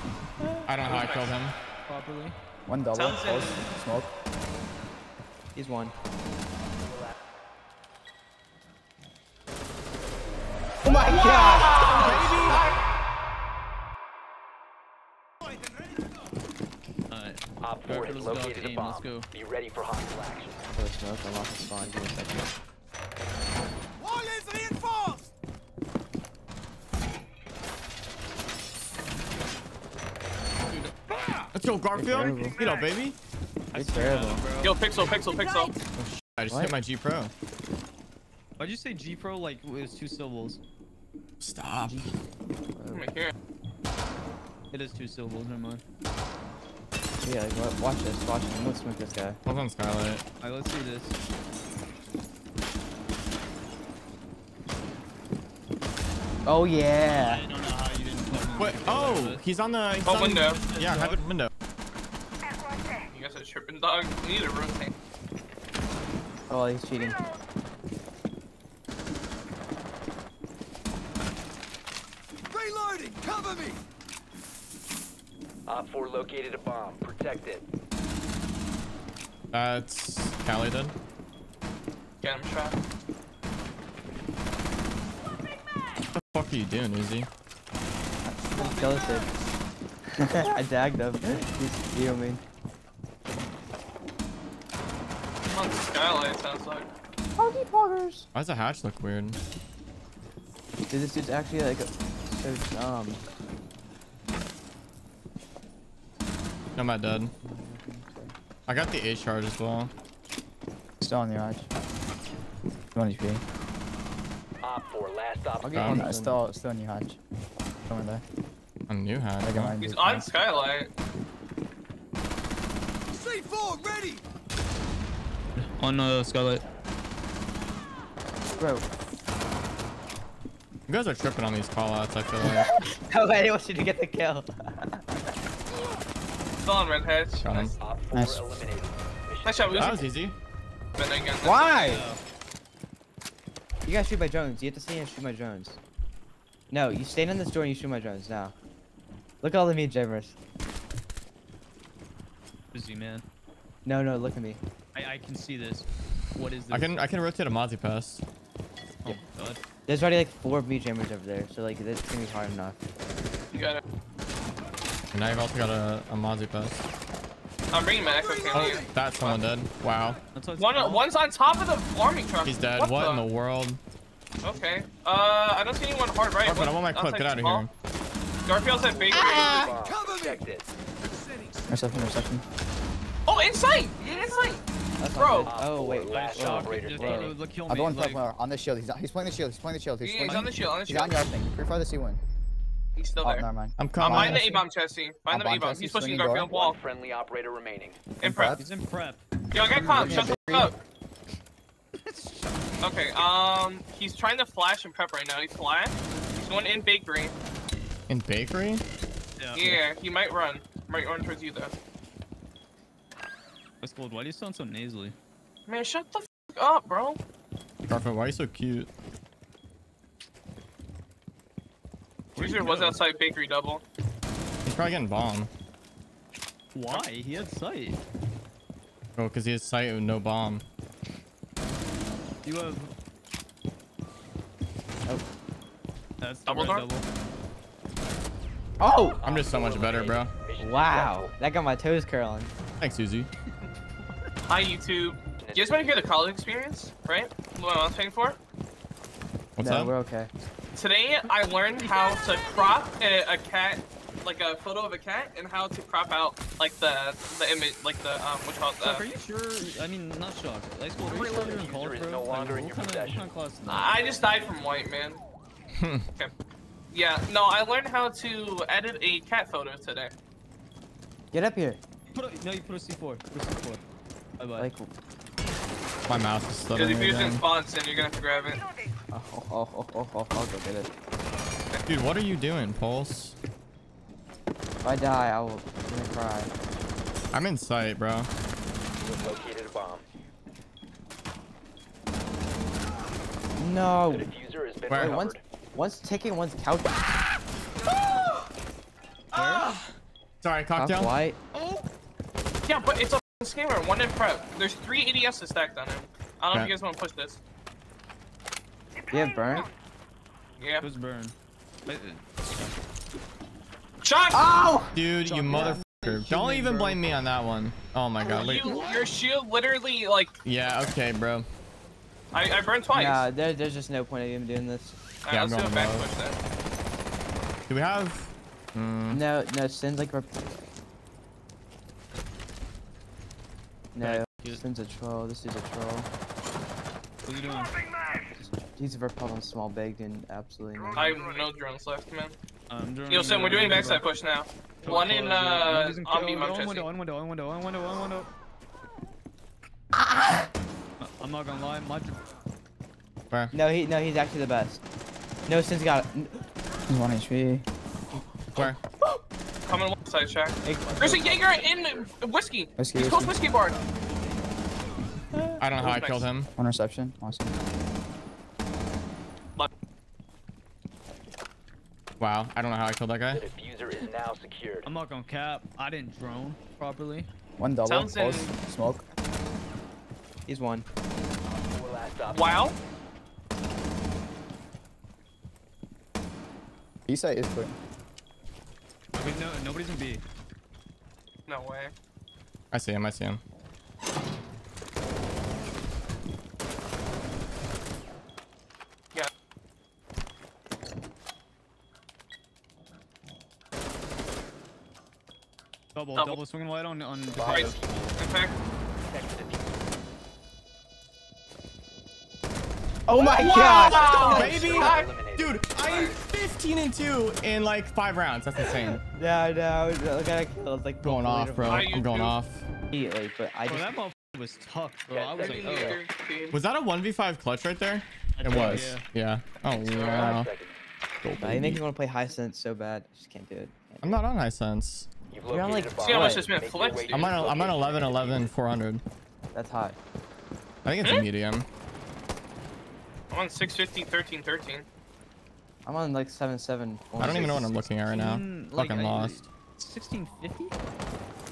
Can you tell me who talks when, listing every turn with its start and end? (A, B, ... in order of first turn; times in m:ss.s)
0:00.4-0:01.0 A
0:00.7-0:01.6 B
0:00.9-0:01.3 C
0:01.9-0:02.4 A
0:02.7-0:04.1 D
0:02.9-0:03.6 C
0:05.6-0:05.9 E
0:10.8-0:12.6 E
0:11.3-0:12.2 C
0:11.8-0:12.7 B
0:17.1-0:19.3 A
0:17.6-0:20.6 F
0:20.7-0:22.5 E
0:31.5-0:33.2 B
0:31.9-0:32.6 E
0:33.7-0:35.1 A
0:33.7-0:34.5 E
0:34.6-0:35.8 C
0:36.0-0:37.3 B
0:38.6-0:40.6 A
0:41.4-0:42.1 B
0:41.8-0:42.1 E
0:42.7-0:43.1 E
0:42.9-0:43.3 C
0:44.7-0:45.8 A
0:47.2-0:49.4 E
0:49.5-0:50.2 B
0:50.4-0:51.2 A
0:56.4-0:57.4 E
0:57.1-0:59.4 A
0:58.6-1:01.5 B
1:00.0-1:00.6 C
1:00.5-1:01.2 A
1:03.1-1:04.9 C
1:06.5-1:07.2 E
1:15.7-1:17.6 F
1:19.5-1:21.0 B
1:22.2-1:22.8 C
1:26.2-1:27.3 B
1:28.3-1:29.3 E
1:30.2-1:32.4 E
1:35.5-1:36.9 C
1:37.4-1:38.3 E
1:38.3-1:39.4 B
1:40.9-1:43.2 E
1:46.8-1:47.3 B
1:47.4-1:48.3 E
1:48.7-1:49.9 B
1:51.0-1:51.7 D
1:53.0-1:53.4 D
1:54.6-1:55.9 F
1:55.6-1:56.4 E
1:55.7-1:56.0 B
1:55.8-1:57.2 D
1:57.9-1:58.2 D
1:58.9-1:59.7 B
1:59.4-2:00.3 D
1:59.8-2:00.9 C
2:05.6-2:06.6 A
2:08.6-2:08.8 E
2:10.9-2:12.7 B
2:12.4-2:15.0 E
2:16.6-2:17.8 C
2:17.4-2:17.8 B
2:17.8-2:20.1 F
2:18.1-2:18.4 D
2:19.4-2:20.0 C
2:19.7-2:20.4 B
2:21.0-2:22.0 C
2:21.4-2:22.0 E
2:21.5-2:21.8 D
2:21.8-2:22.2 A
2:23.9-2:25.8 E
2:26.7-2:28.5 E
2:29.4-2:30.4 E
2:32.7-2:33.2 A
2:33.8-2:34.6 E
2:34.9-2:37.0 A
2:36.7-2:38.2 B
2:39.0-2:39.6 A
2:39.9-2:42.8 E
2:43.5-2:43.8 C
2:45.1-2:46.8 B
2:47.7-2:49.4 C
2:48.5-2:50.2 B
2:50.4-2:51.1 A
2:50.6-2:53.2 C
2:52.4-2:53.8 B
2:54.4-2:57.7 C
2:56.4-2:57.7 B
2:58.5-2:59.5 C
2:58.7-3:00.7 F
2:59.2-2:59.5 E
3:01.7-3:02.4 D
3:03.3-3:04.6 C
3:05.0-3:07.3 E
3:05.2-3:05.5 C
3:05.4-3:07.4 F
3:06.1-3:08.3 A
3:07.7-3:12.2 D
3:10.0-3:11.2 C
3:13.0-3:13.5 C
3:13.2-3:14.6 D
3:13.8-3:14.3 B
3:14.0-3:16.8 C
3:15.3-3:16.5 D
3:16.3-3:18.1 F
3:18.2-3:18.6 C
3:18.2-3:18.6 D
3:18.5-3:19.2 A
3:19.5-3:20.8 C
3:19.8-3:20.3 A
3:19.8-3:20.7 D
3:22.0-3:22.8 A
3:22.8-3:27.3 C
3:28.1-3:28.8 B
3:29.4-3:29.8 A
3:29.6-3:31.7 C
3:33.8-3:35.2 A
3:35.7-3:37.2 C
3:37.9-3:38.9 B
3:42.4-3:43.8 C
3:42.4-3:43.0 A
3:44.6-3:45.5 B
3:46.7-3:48.0 A
3:49.2-3:50.6 B
3:52.4-3:52.9 A
3:56.2-3:57.0 A
3:56.5-3:56.9 C
3:58.8-3:59.2 E
3:59.2-4:01.4 F
3:59.2-4:00.3 B
4:00.6-4:02.5 E
4:02.8-4:03.3 B
4:04.5-4:08.4 C
4:05.4-4:06.1 F
4:09.6-4:09.9 B
4:09.6-4:10.3 E
4:10.8-4:19.1 C
4:18.8-4:23.9 A
4:21.0-4:23.3 F
4:23.7-4:25.2 C
4:25.8-4:26.1 B
4:26.9-4:30.1 C
4:31.3-4:31.8 E
4:32.1-4:33.8 A
4:34.4-4:34.7 A
4:34.6-4:34.9 E
4:36.1-4:37.4 B
4:36.8-4:38.6 C
4:39.1-4:40.9 E
4:41.9-4:43.4 B
4:44.8-4:46.5 E
4:47.3-4:48.3 B
4:49.0-4:50.0 F
4:53.6-4:54.3 E
4:54.1-4:55.4 F
4:54.9-4:55.2 B
4:54.9-4:57.0 E
4:59.3-4:59.8 A
4:59.4-4:59.8 B
5:00.4-5:01.1 B
5:00.8-5:01.4 E
5:02.7-5:07.4 C
5:09.1-5:09.7 E
5:10.6-5:10.9 C
5:10.8-5:11.3 A
5:11.9-5:12.2 A
5:14.0-5:14.5 C
5:14.3-5:15.0 E
5:14.9-5:18.8 B
5:15.2-5:17.0 A
5:15.5-5:15.8 E
5:18.3-5:20.4 C
5:20.4-5:21.5 B
5:22.3-5:23.3 C
5:22.9-5:25.0 E
5:25.2-5:26.4 C
5:25.3-5:26.1 B
5:27.7-5:29.2 B
5:29.1-5:30.3 E
5:33.9-5:36.1 E
5:34.0-5:34.6 A
5:37.2-5:37.8 A
5:38.4-5:41.1 E
5:40.9-5:42.3 C
5:42.7-5:44.0 A
5:43.1-5:46.9 C
5:44.8-5:48.3 A
5:50.0-5:50.2 E
5:51.0-5:52.2 A
5:53.5-5:54.8 E
5:55.5-5:56.4 E
5:56.9-5:57.7 D
5:59.7-6:03.8 C
6:00.6-6:01.6 E
6:01.3-6:02.1 F
6:02.8-6:03.3 D
6:03.7-6:04.2 F
6:05.6-6:06.5 B
6:05.8-6:06.3 C
6:06.6-6:07.6 D
6:12.2-6:13.5 B
6:13.3-6:14.9 F
6:14.9-6:17.3 A
6:17.6-6:19.0 D
6:17.8-6:18.5 C
6:20.5-6:20.9 E
6:21.4-6:22.7 F
6:22.3-6:22.8 C
6:27.1-6:27.8 D
6:29.2-6:30.2 A
6:31.5-6:31.9 C
6:32.7-6:33.4 B
6:46.0-6:47.8 A
6:47.3-6:48.1 F
6:47.4-6:48.6 C
6:49.0-6:49.8 F
6:53.1-6:54.6 E
6:53.4-6:55.1 C
6:53.5-6:55.7 F
6:53.7-6:59.0 B
6:55.8-6:56.2 C
6:58.8-7:01.9 E
7:01.0-7:02.7 B
7:01.6-7:02.4 C
7:02.9-7:04.0 E
7:03.7-7:06.0 A
7:05.1-7:06.0 F
7:05.4-7:06.6 C
7:06.5-7:10.5 B
7:08.4-7:09.0 A
7:09.7-7:10.3 C
7:10.0-7:10.8 F
7:11.2-7:11.8 B
7:11.4-7:14.2 E
7:14.0-7:15.1 B
7:15.3-7:18.5 F
7:15.5-7:16.5 E
7:16.0-7:17.5 C
7:17.1-7:19.0 B
7:19.5-7:20.0 E
7:20.8-7:21.7 B
7:23.3-7:24.8 C
7:25.8-7:27.8 E
7:27.2-7:29.5 B
7:28.1-7:30.7 A